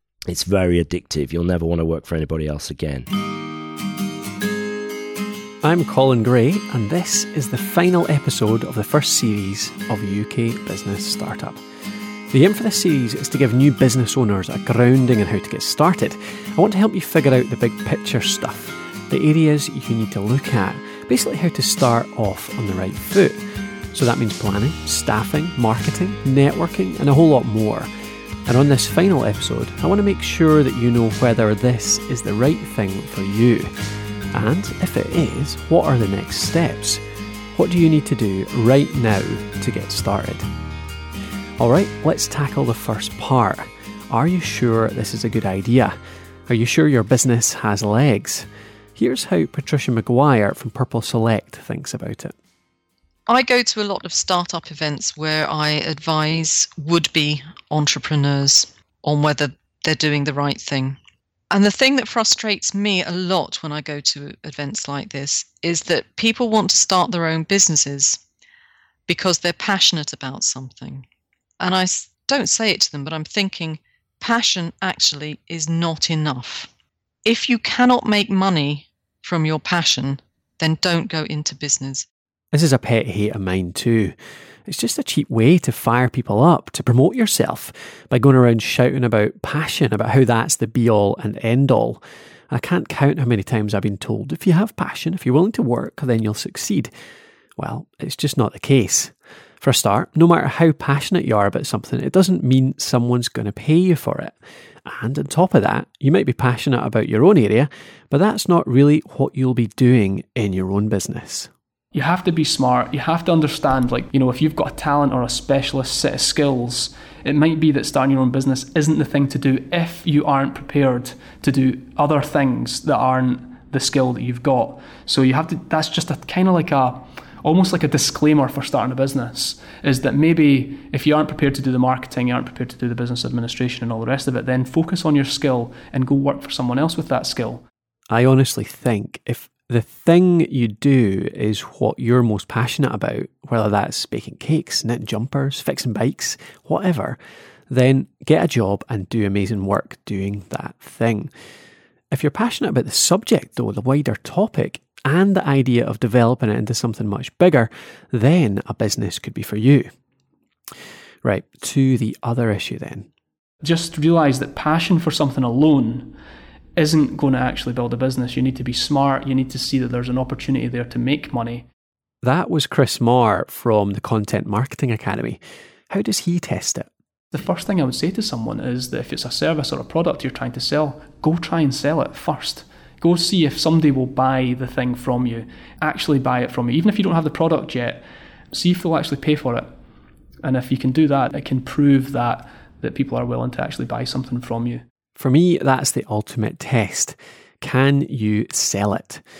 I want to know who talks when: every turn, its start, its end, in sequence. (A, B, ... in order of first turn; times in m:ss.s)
0:00.3-0:03.1 A
0:05.6-0:11.6 B
0:12.3-0:23.4 B
0:23.9-0:27.9 B
0:28.5-0:33.7 B
0:34.3-0:37.0 B
0:37.6-0:40.5 B
0:41.6-0:46.0 B
0:46.5-0:52.3 B
0:53.3-1:01.0 C
1:01.5-1:08.2 C
1:09.1-1:11.1 C
1:11.6-1:16.7 C
1:17.2-1:22.1 C
1:22.5-1:24.2 B
1:24.7-1:36.9 B
1:37.6-1:51.5 B
1:51.9-2:17.6 D
2:18.1-2:27.2 B
2:27.7-2:31.3 B
2:32.1-2:39.9 B
2:41.2-2:43.1 B
2:43.6-2:46.2 D
2:46.8-2:51.7 D
2:52.2-2:56.9 B
2:57.3-3:09.7 D
3:10.4-3:14.8 D
3:15.2-3:19.2 B